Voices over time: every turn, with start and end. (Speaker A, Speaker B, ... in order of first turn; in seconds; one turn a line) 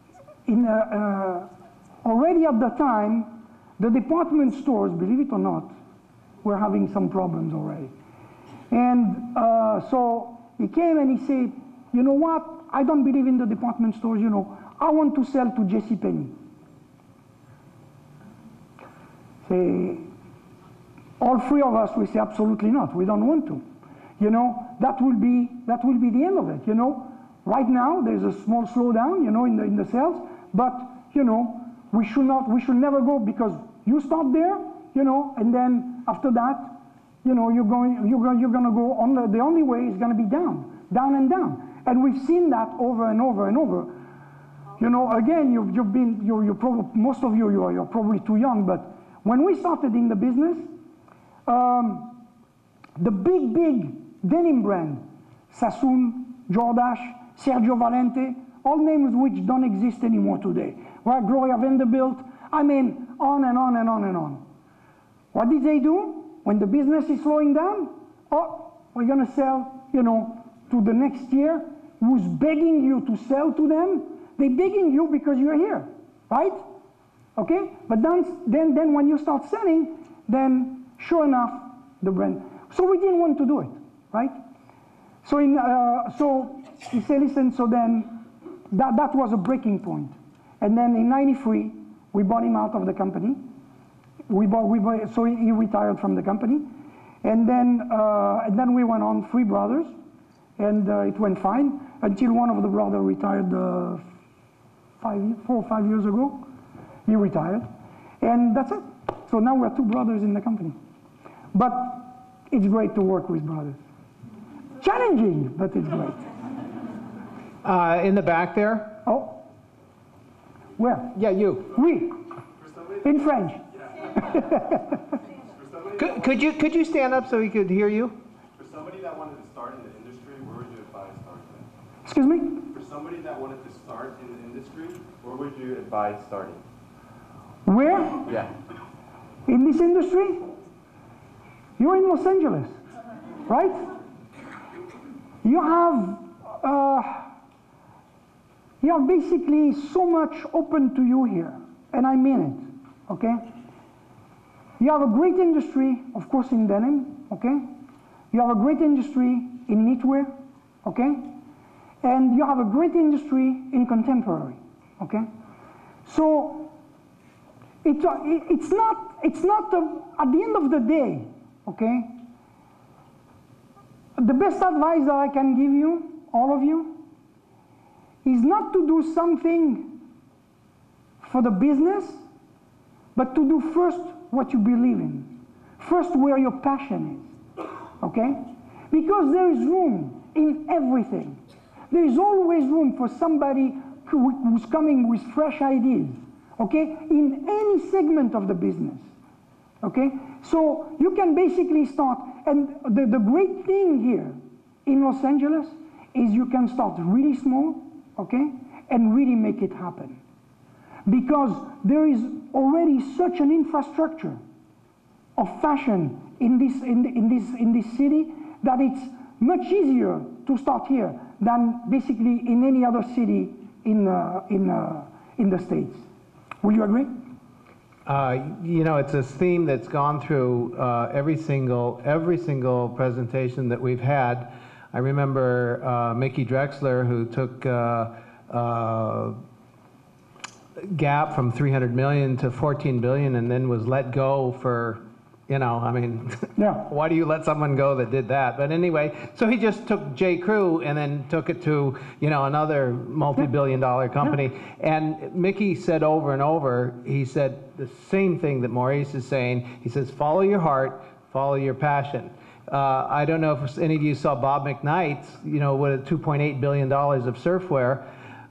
Speaker A: 0.5-1.5
Speaker A: 2.0-5.7
Speaker A: 6.4-7.9
Speaker A: 8.7-16.4
Speaker A: 19.4-20.1
Speaker A: 21.2-23.6
Speaker A: 24.2-43.9
Speaker A: 44.8-50.7
Speaker A: 51.5-52.1
Speaker A: 53.0-64.4
Speaker A: 65.3-76.6
Speaker A: 77.3-84.4
Speaker A: 85.2-88.1
Speaker A: 88.7-93.4
Speaker A: 94.3-96.7
Speaker A: 97.2-99.9
Speaker A: 100.6-104.0
Speaker A: 105.0-106.5
Speaker A: 107.0-107.7
Speaker A: 108.2-110.8
Speaker A: 111.5-113.8
Speaker A: 114.8-116.3
Speaker B: 117.6-119.0
Speaker A: 119.0-119.4
Speaker A: 120.8-121.1
Speaker B: 121.1-121.7
Speaker A: 121.7-122.2
Speaker C: 122.5-124.6
Speaker A: 123.0-123.6
Speaker A: 124.2-125.0
Speaker C: 125.4-126.4
Speaker B: 126.0-128.2
Speaker C: 128.6-131.7
Speaker A: 132.0-132.7
Speaker C: 132.7-136.6
Speaker A: 137.7-138.3
Speaker A: 139.5-140.4
Speaker A: 141.8-142.8
Speaker A: 143.5-143.8
Speaker A: 145.4-147.3
Speaker A: 148.8-153.5
Speaker A: 154.8-157.7
Speaker A: 158.3-160.3
Speaker A: 160.8-161.3
Speaker A: 162.0-165.3
Speaker A: 166.1-166.7
Speaker A: 167.8-172.1
Speaker A: 174.2-177.0
Speaker A: 178.2-179.9
Speaker A: 181.2-182.2
Speaker A: 183.1-187.3
Speaker A: 188.0-191.4
Speaker A: 191.9-199.1
Speaker A: 199.8-210.2
Speaker A: 211.1-214.4
Speaker A: 215.4-226.0
Speaker A: 226.6-227.1
Speaker B: 228.1-239.4
Speaker B: 240.8-268.0
Speaker A: 246.6-246.9